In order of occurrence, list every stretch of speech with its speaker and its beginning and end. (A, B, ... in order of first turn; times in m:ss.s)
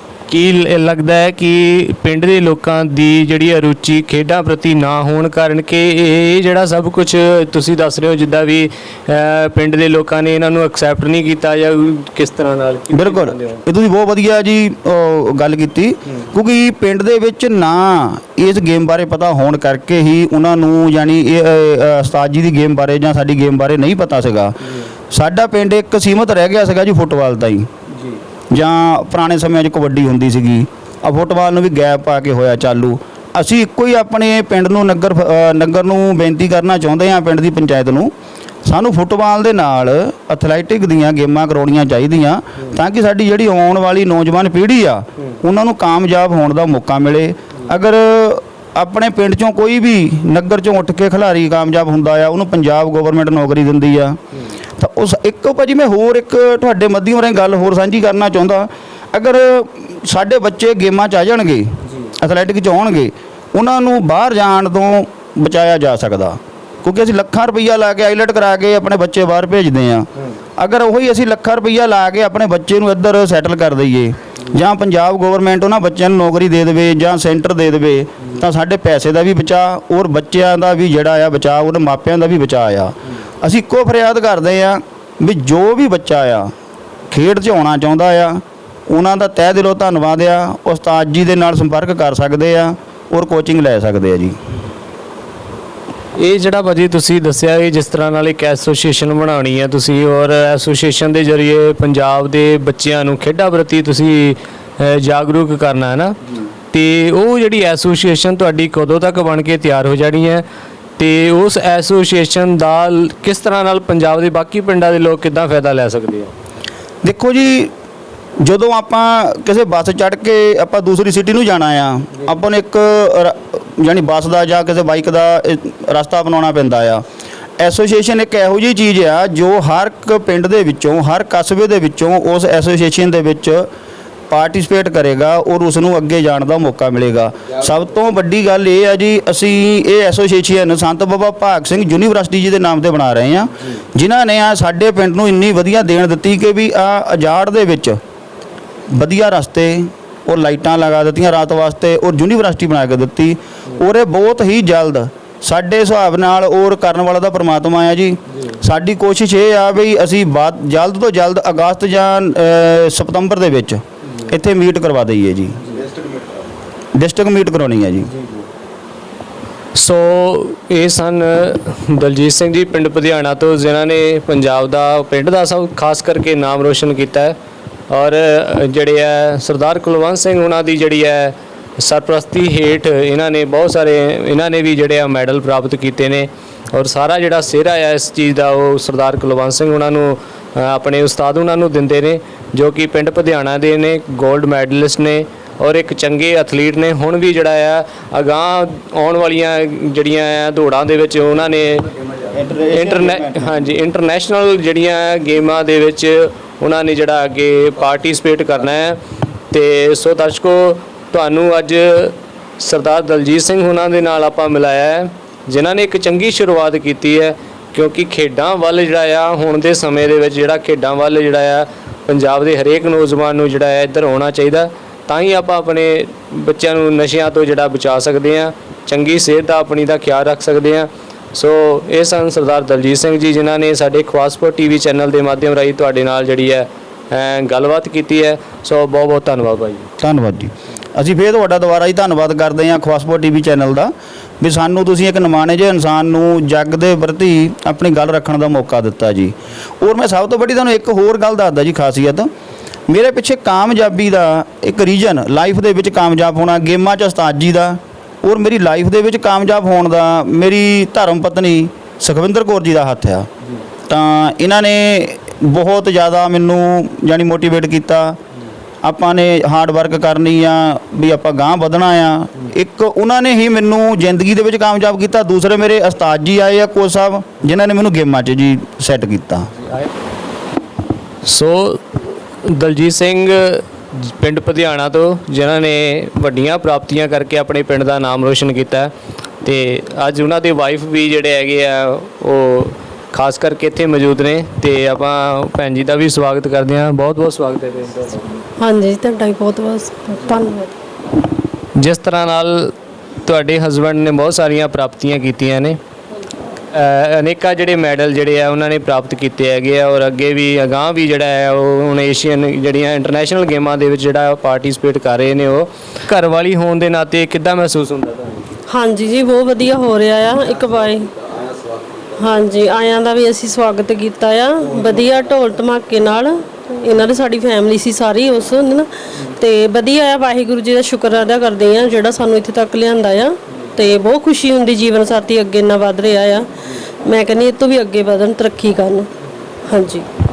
0:00.3-0:13.6 A
0:12.9-0:27.7 B
0:28.5-0:38.1 B
0:38.6-0:54.2 B
0:54.8-1:26.5 B
1:01.8-1:02.1 A
1:27.1-1:34.4 B
1:36.2-1:46.2 A
1:46.7-1:50.4 A
1:51.0-1:56.3 A
1:57.0-1:57.7 B
1:58.4-2:07.0 B
2:07.6-2:13.7 B
2:14.3-2:28.0 B
2:28.9-2:45.6 B
2:47.0-2:48.1 B
2:49.8-2:57.4 A
2:57.9-3:21.9 A
3:22.3-3:23.7 B
3:22.7-3:59.9 A
4:00.0-4:12.3 B
4:12.9-4:23.3 B
4:23.9-4:28.2 B
4:28.8-4:39.5 B
4:41.2-4:48.9 A
4:49.4-4:58.4 A
4:58.4-5:00.8 C
5:01.8-5:02.7 A
5:03.2-5:05.8 A
5:06.7-5:18.5 A
5:18.7-5:21.1 C
5:22.2-5:36.5 C
5:37.0-5:39.1 C
5:39.7-5:40.1 C